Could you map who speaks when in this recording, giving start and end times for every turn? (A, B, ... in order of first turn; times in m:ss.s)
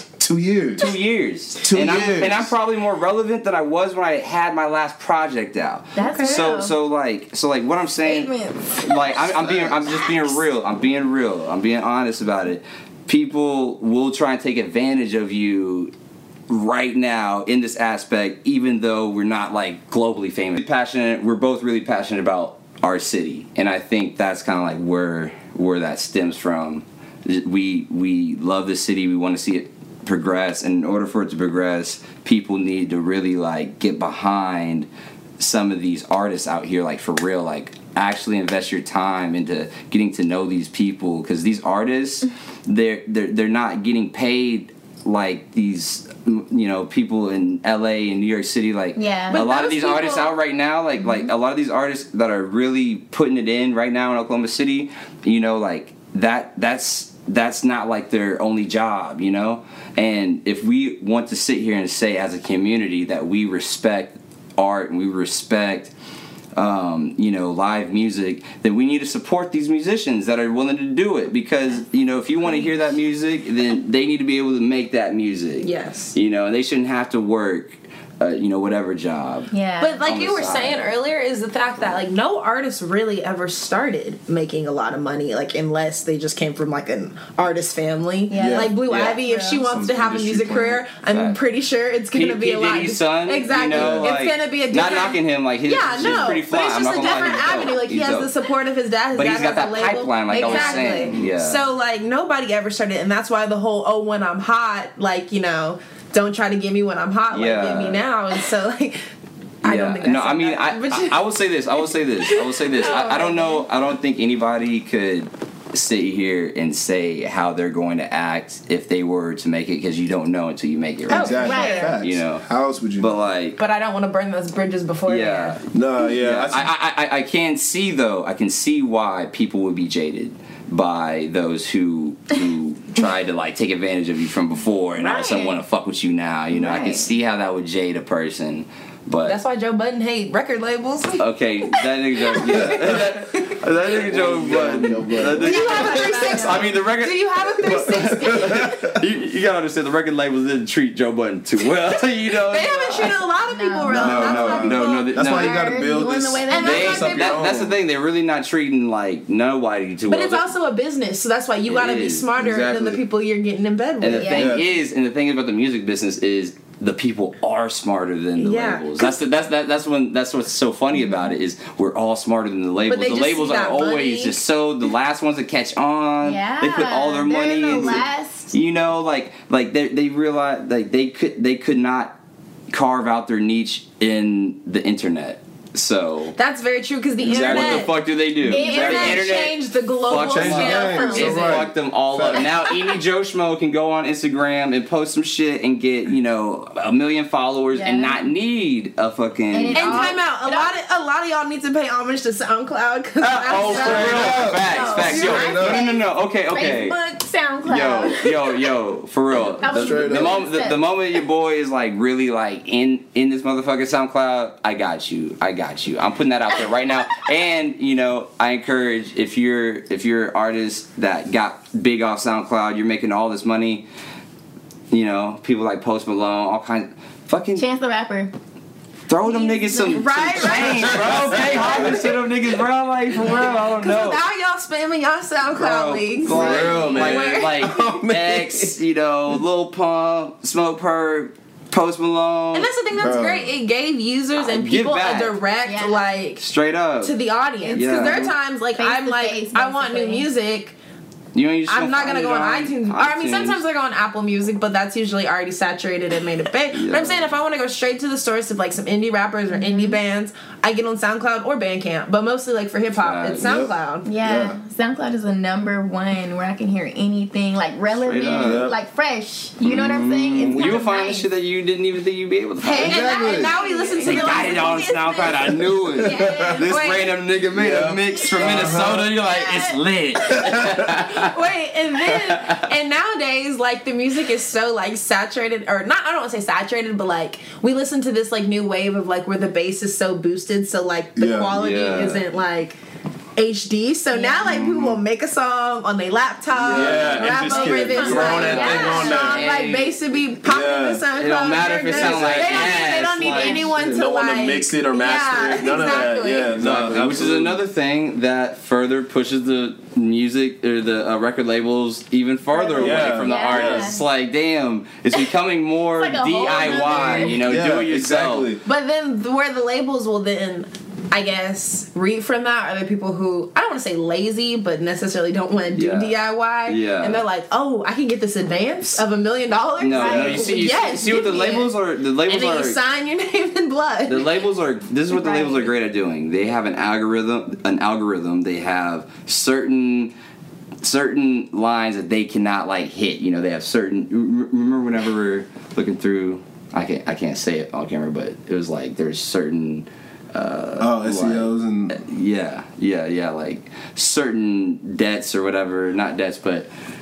0:00.2-0:00.9 A
0:00.8-0:15.9 B
0:01.6-0:02.5 A
0:05.9-0:06.7 C
0:06.0-0:06.4 D
0:08.0-0:10.4 C
0:16.5-0:34.9 B
0:35.4-1:05.9 B
0:49.0-0:49.4 C
0:49.3-0:50.3 D
0:51.0-0:51.3 C
1:06.5-1:19.5 B
1:15.6-1:16.1 D
1:19.5-1:20.0 C
1:19.8-1:49.0 D
1:20.0-1:20.9 B
1:28.3-1:29.7 C
1:28.3-1:28.7 A
1:29.6-1:30.8 A
1:31.1-1:31.4 B
1:32.1-1:38.3 B
1:33.7-1:34.1 A
1:39.1-1:41.6 B
1:40.4-1:40.9 C
1:41.0-1:41.3 A
1:47.3-1:48.0 B
1:49.6-1:51.2 D
1:49.6-2:02.4 B
1:52.4-1:53.6 D
2:01.1-2:03.2 A
2:01.1-2:01.9 D
2:01.2-2:01.9 C
2:03.0-2:03.6 B
2:03.6-2:05.6 D
2:05.1-2:05.7 B
2:05.7-2:06.7 A
2:06.2-2:19.4 B
2:15.0-2:15.6 C
2:16.5-2:17.1 C
2:19.2-2:21.2 D
2:21.2-2:33.1 B
2:22.4-2:22.9 D
2:22.5-2:23.0 A
2:23.9-2:26.2 A
2:25.4-2:28.6 D
2:25.4-2:26.5 C
2:28.1-2:28.9 A
2:32.5-2:35.0 D
2:33.5-2:37.2 C
2:33.9-2:37.8 A
2:34.0-2:35.6 B
2:36.5-2:37.3 D
2:36.6-2:40.5 B
2:40.1-2:44.5 D
2:41.7-2:42.2 B
2:42.4-2:43.0 A
2:44.0-3:02.1 B
2:44.1-2:44.6 C
2:44.3-2:44.6 A
2:48.4-2:48.9 D
2:50.9-2:51.3 C
2:52.9-2:54.4 D
2:56.2-2:58.5 C
2:57.7-2:58.0 A
3:02.7-3:06.3 B
3:06.4-3:08.0 D
3:07.2-3:07.9 A
3:07.2-3:20.2 B
3:08.4-3:09.4 C
3:08.5-3:11.4 D
3:10.3-3:12.5 A
3:10.9-3:11.3 C
3:12.3-3:13.0 C
3:17.7-3:18.3 C
3:19.5-3:20.7 C
3:19.7-3:25.3 D
3:23.2-3:27.0 B
3:23.6-3:28.6 C
3:23.8-3:25.8 A
3:27.6-3:43.8 B
3:29.6-3:30.8 C
3:29.7-3:30.4 A
3:44.9-3:47.7 B
3:47.6-3:48.3 C
3:49.1-3:54.2 B
3:49.2-3:50.9 C
3:49.9-3:51.9 D
3:53.2-3:57.5 D
3:55.6-4:02.7 B
3:56.2-3:58.7 A
4:02.5-4:06.4 D
4:03.0-4:03.5 A
4:04.4-4:05.4 B
4:05.6-4:06.1 C
4:06.4-4:07.1 B
4:07.0-4:10.8 D
4:07.6-4:10.3 C
4:07.7-4:08.3 B
4:11.3-4:13.6 B
4:11.7-4:24.1 D
4:16.7-4:17.2 B
4:19.5-4:20.0 C
4:23.0-4:23.5 B
4:23.4-4:23.7 A
4:24.0-4:31.3 C
4:24.2-4:24.6 A
4:28.0-4:28.7 B
4:28.4-4:28.8 A
4:29.6-4:30.8 A
4:30.4-4:33.1 B
4:32.6-4:37.0 D
4:32.8-4:35.2 C
4:32.8-4:33.6 A
4:34.0-4:41.3 B
4:36.0-4:36.5 A
4:36.1-4:36.5 C
4:37.5-4:39.1 A
4:39.2-4:40.5 C
4:41.1-4:52.8 D
4:42.1-4:42.5 B
4:51.2-4:51.6 A
4:51.5-4:52.2 B
4:53.4-5:06.5 D
4:54.1-4:54.6 C
4:54.4-4:55.0 A
4:56.6-4:59.4 A
4:56.7-4:57.2 B
4:57.0-4:59.6 C
4:58.2-4:59.9 B
5:00.4-5:01.0 A
5:01.1-5:03.7 B
5:01.9-5:02.5 A
5:03.2-5:03.7 C
5:03.7-5:07.6 A
5:06.6-5:18.5 B
5:12.5-5:14.0 C
5:12.7-5:13.9 A
5:15.9-5:17.4 C
5:16.7-5:18.6 A
5:18.6-5:31.7 D
5:25.7-5:27.2 B
5:29.8-5:32.8 B
5:29.9-5:30.6 C
5:32.3-5:34.3 D
5:34.1-5:40.1 B
5:35.1-5:35.7 C
5:40.8-5:56.7 B
5:50.8-5:52.0 A